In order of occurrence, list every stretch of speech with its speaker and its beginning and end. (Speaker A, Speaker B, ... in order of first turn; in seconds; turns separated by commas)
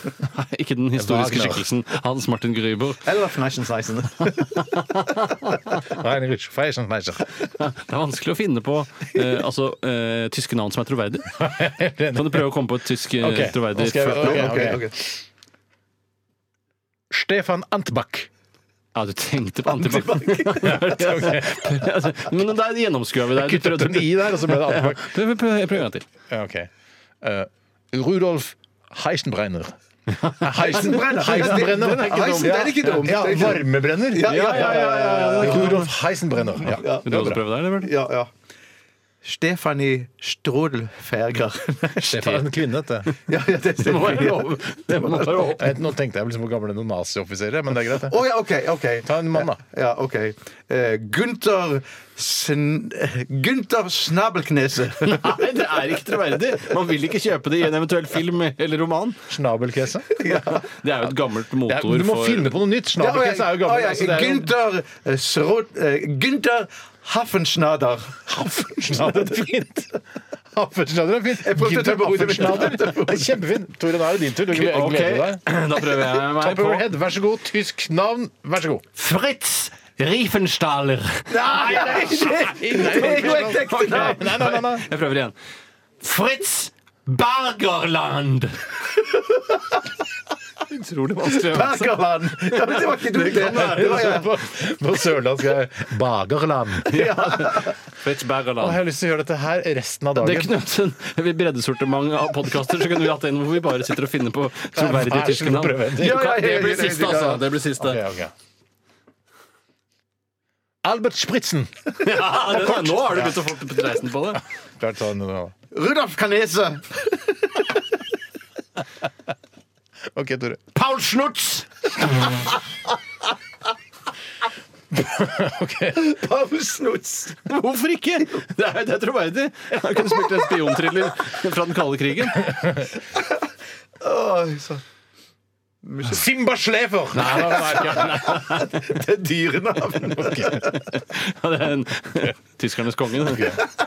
Speaker A: 0.2-3.1, Speaker B: 1.0-1.7, Speaker C: 3.0-4.7, Speaker A: 4.3-5.8, Speaker B: 5.8-7.3, Speaker A: 7.4-14.7, Speaker B: 11.4-12.5, Speaker B: 13.1-15.2, Speaker C: 14.1-15.0, Speaker B: 17.1-18.3, Speaker A: 18.9-26.1, Speaker B: 20.6-21.9, Speaker B: 23.3-25.1, Speaker B: 26.3-26.7, Speaker B: 27.2-37.4, Speaker A: 30.2-30.9, Speaker C: 30.6-35.8, Speaker A: 31.5-33.1, Speaker A: 34.2-35.9, Speaker A: 36.6-37.9, Speaker C: 36.7-37.2, Speaker C: 37.8-38.3, Speaker C: 39.2-42.2, Speaker B: 42.0-43.1, Speaker A: 42.1-42.5, Speaker C: 43.2-45.5, Speaker A: 43.8-45.9, Speaker B: 45.5-48.3, Speaker C: 48.0-55.4, Speaker B: 49.0-49.6, Speaker A: 55.0-59.2, Speaker B: 59.3-60.1, Speaker C: 60.1-60.6, Speaker A: 60.2-62.6, Speaker B: 61.7-64.5, Speaker C: 63.0-68.3, Speaker B: 68.3-70.0, Speaker B: 70.5-78.9, Speaker C: 71.4-73.4, Speaker A: 74.5-76.9, Speaker A: 79.0-85.3, Speaker C: 81.3-84.3, Speaker B: 81.7-84.8, Speaker A: 86.0-88.7, Speaker C: 89.0-89.7, Speaker A: 90.7-94.2, Speaker C: 91.2-94.3, Speaker B: 93.5-97.1, Speaker A: 96.8-98.8, Speaker C: 96.9-97.8, Speaker B: 98.6-100.5, Speaker A: 100.2-108.0, Speaker B: 104.7-106.7, Speaker C: 106.0-107.5, Speaker B: 107.8-108.3, Speaker B: 110.8-113.4, Speaker A: 112.0-114.4, Speaker B: 114.8-115.5, Speaker C: 115.7-117.8, Speaker B: 120.1-120.7, Speaker A: 120.7-121.7, Speaker B: 124.9-126.1, Speaker C: 125.9-127.4, Speaker A: 127.4-132.8, Speaker C: 134.0-134.8, Speaker C: 135.8-136.2, Speaker B: 136.0-138.6, Speaker C: 137.3-140.8, Speaker A: 137.5-138.7, Speaker B: 140.1-140.6, Speaker A: 140.5-143.6, Speaker B: 143.2-143.7